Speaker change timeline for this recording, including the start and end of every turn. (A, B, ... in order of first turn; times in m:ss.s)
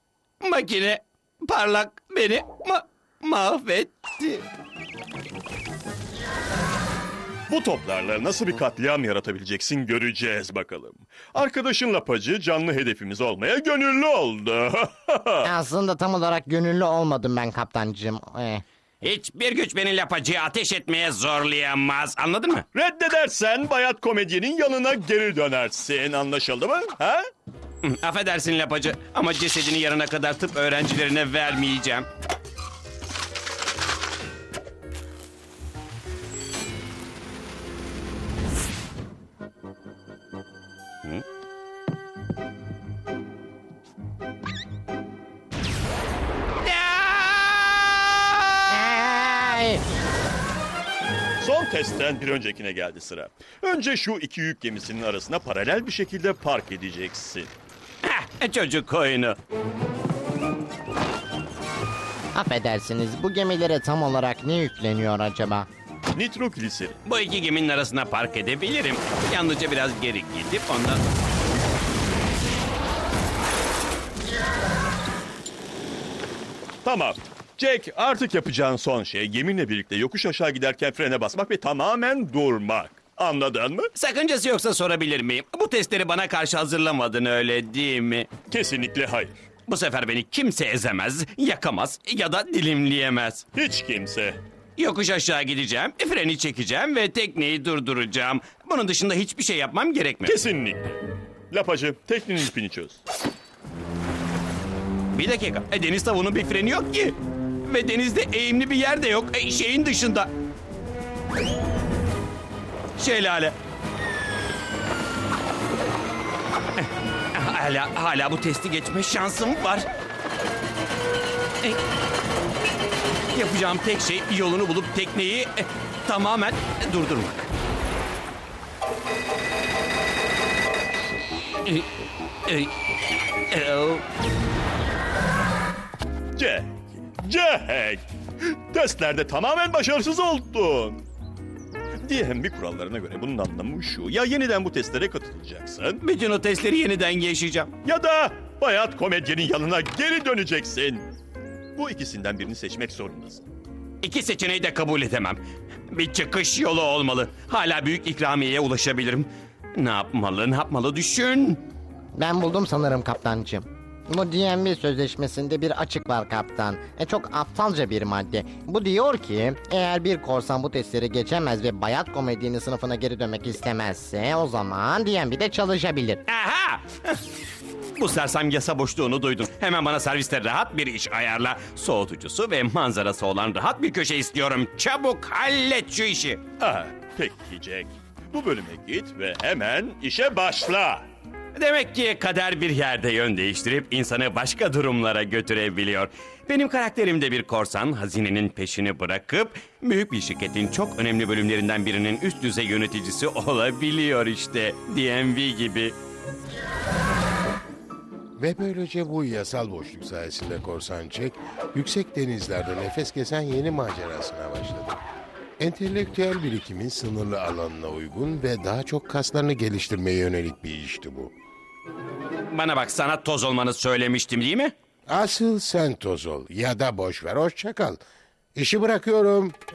0:00.4-0:04.5 A
0:07.5-0:15.5 B
0:15.4-0:18.6 C
0:19.0-0:22.7 A
0:22.7-0:27.2 B
0:27.8-0:32.1 A
0:46.6-0:48.9 A
0:48.7-0:49.8 C
0:51.4-0:57.5 B
0:58.0-0:59.4 A
1:02.4-1:05.7 C
1:06.1-1:07.0 B
1:07.0-1:11.0 A
1:16.8-1:23.9 B
1:23.9-1:28.3 A
1:28.5-1:29.4 B
1:29.7-1:33.4 A
1:33.6-1:34.4 B
1:34.8-1:40.4 A
1:40.2-1:43.0 B
1:45.1-1:50.3 A
1:53.0-1:53.6 A
1:56.8-1:59.9 A
2:03.3-2:07.4 A
2:12.5-2:12.7 A
2:13.5-2:14.0 A
2:16.4-2:21.0 B
2:22.0-2:26.0 B
2:26.0-2:27.7 A
2:27.8-2:31.1 B
2:31.8-2:33.5 B
2:34.0-2:41.6 A
2:42.2-2:56.2 C
2:56.3-2:57.2 A
2:58.0-3:06.4 A
3:06.6-3:11.1 B
3:11.6-3:26.0 A
3:28.4-3:35.0 D
3:35.6-3:41.3 D
3:42.5-3:44.7 A
3:45.1-3:48.0 D
3:48.6-3:49.6 D